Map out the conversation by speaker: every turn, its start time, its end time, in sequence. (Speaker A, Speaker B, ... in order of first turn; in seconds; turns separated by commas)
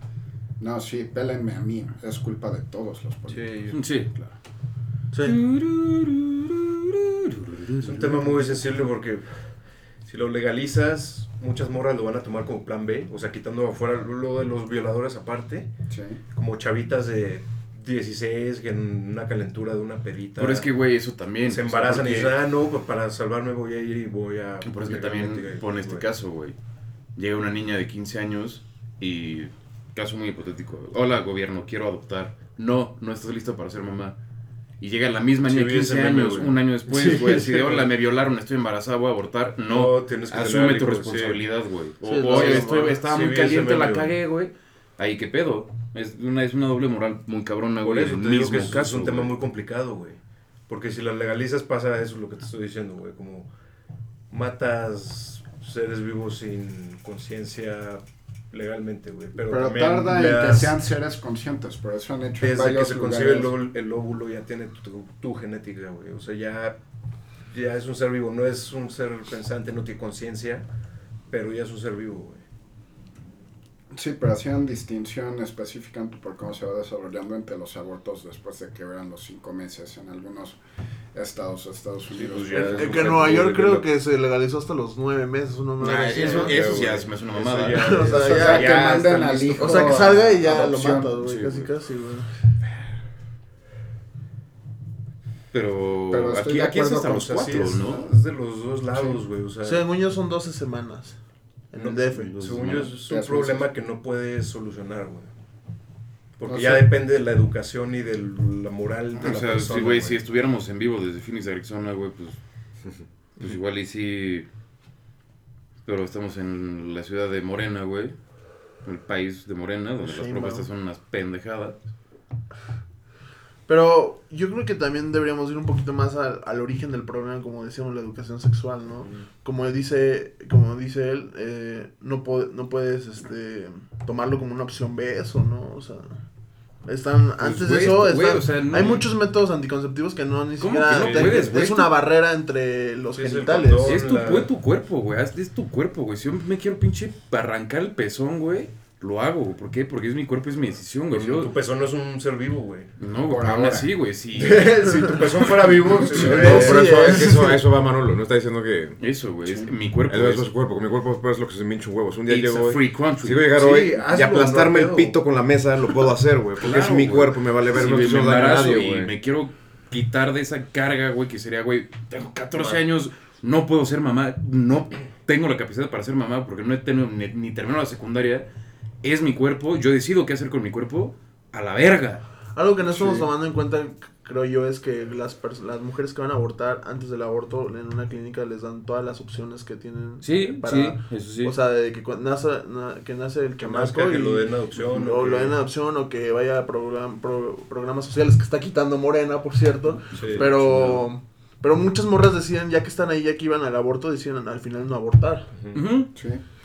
Speaker A: 0.6-3.5, Speaker B: 3.3-3.8, Speaker C: 3.7-4.3, Speaker D: 5.1-5.4, Speaker C: 5.2-8.4, Speaker B: 7.8-9.3, Speaker B: 10.0-15.7, Speaker A: 15.9-16.2, Speaker B: 16.3-20.7, Speaker C: 20.4-22.3, Speaker B: 21.5-26.1, Speaker C: 24.6-26.5, Speaker C: 27.1-34.1, Speaker C: 34.8-49.3, Speaker B: 35.5-37.9, Speaker B: 39.7-41.4, Speaker D: 42.0-43.0, Speaker B: 42.3-44.1, Speaker B: 47.8-53.5, Speaker B: 54.3-60.7, Speaker A: 59.4-63.5, Speaker B: 62.4-66.8, Speaker B: 67.5-70.6, Speaker B: 71.3-72.4, Speaker A: 73.9-80.6, Speaker A: 81.1-83.0, Speaker B: 82.1-83.9, Speaker D: 82.6-86.6, Speaker C: 85.8-88.0, Speaker B: 86.1-90.1, Speaker D: 87.7-88.8, Speaker A: 88.1-91.1, Speaker D: 89.6-92.3, Speaker C: 91.2-91.7, Speaker C: 95.5-98.0, Speaker A: 96.1-98.1, Speaker B: 97.1-99.8, Speaker A: 98.9-99.2, Speaker D: 99.6-101.2, Speaker D: 101.7-102.3, Speaker B: 101.8-105.3, Speaker C: 102.2-102.9, Speaker A: 102.7-103.7, Speaker B: 106.4-110.2, Speaker A: 106.5-106.9, Speaker C: 109.2-112.4, Speaker C: 113.4-114.5, Speaker C: 115.8-118.1, Speaker C: 118.8-121.8, Speaker D: 120.0-120.7, Speaker D: 123.7-136.2, Speaker D: 136.8-144.0, Speaker C: 137.4-139.1, Speaker C: 140.6-141.9, Speaker B: 141.0-141.5, Speaker B: 143.2-144.5, Speaker C: 143.8-151.5, Speaker B: 151.1-152.9, Speaker C: 153.0-155.4, Speaker A: 153.2-153.9, Speaker B: 154.3-156.9, Speaker A: 156.1-156.8, Speaker D: 156.2-157.6, Speaker E: 156.3-159.0, Speaker C: 159.0-160.5, Speaker E: 160.1-169.1, Speaker C: 162.3-163.5, Speaker B: 163.5-165.2, Speaker C: 166.6-178.5, Speaker C: 179.0-182.2, Speaker D: 182.5-205.5, Speaker A: 182.8-183.3, Speaker C: 190.2-191.5, Speaker B: 193.6-195.6, Speaker C: 200.1-201.1, Speaker B: 200.1-200.4, Speaker B: 205.5-205.8, Speaker C: 205.7-206.1, Speaker A: 206.1-206.4